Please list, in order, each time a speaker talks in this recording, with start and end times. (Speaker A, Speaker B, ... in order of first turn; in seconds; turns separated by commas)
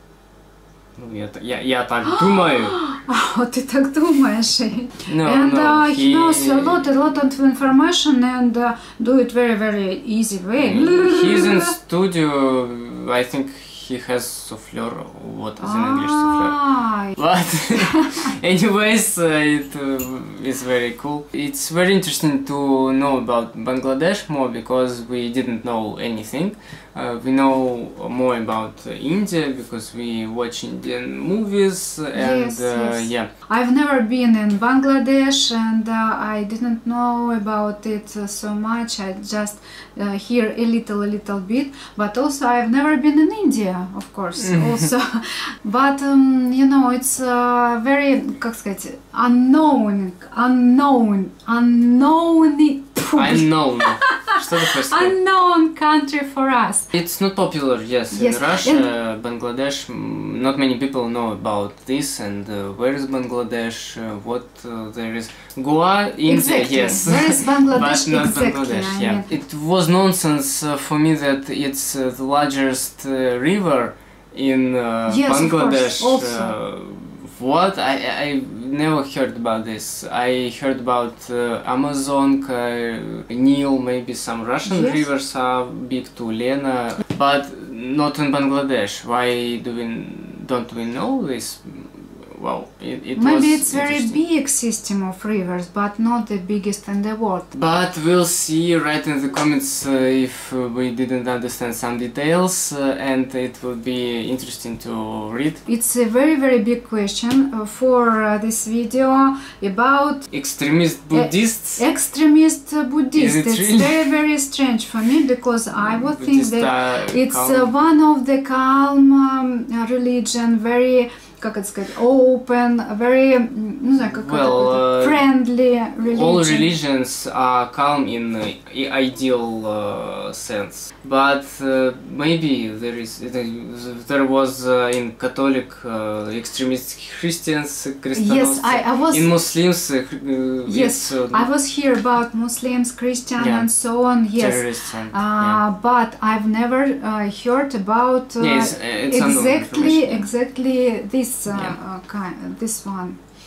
Speaker A: 1.0-2.8, Speaker B: 2.0-11.7, Speaker A: 5.1-6.9, Speaker A: 10.6-16.6, Speaker B: 15.6-17.2, Speaker A: 17.1-33.3, Speaker B: 17.8-18.3, Speaker B: 32.1-56.9, Speaker A: 44.4-44.9, Speaker A: 53.1-55.2, Speaker A: 56.9-94.2, Speaker B: 58.1-58.9, Speaker B: 66.2-69.3, Speaker B: 75.1-76.5, Speaker B: 84.7-85.1, Speaker B: 93.2-97.5, Speaker A: 97.5-105.6, Speaker B: 105.7-110.3, Speaker A: 110.3-111.8, Speaker B: 111.1-126.7, Speaker A: 113.2-114.1, Speaker A: 115.8-117.8, Speaker A: 124.0-125.2, Speaker A: 126.0-141.5, Speaker B: 138.1-139.3, Speaker B: 140.7-153.2, Speaker A: 143.4-143.7, Speaker A: 144.3-145.6, Speaker A: 148.4-150.3, Speaker A: 151.5-151.8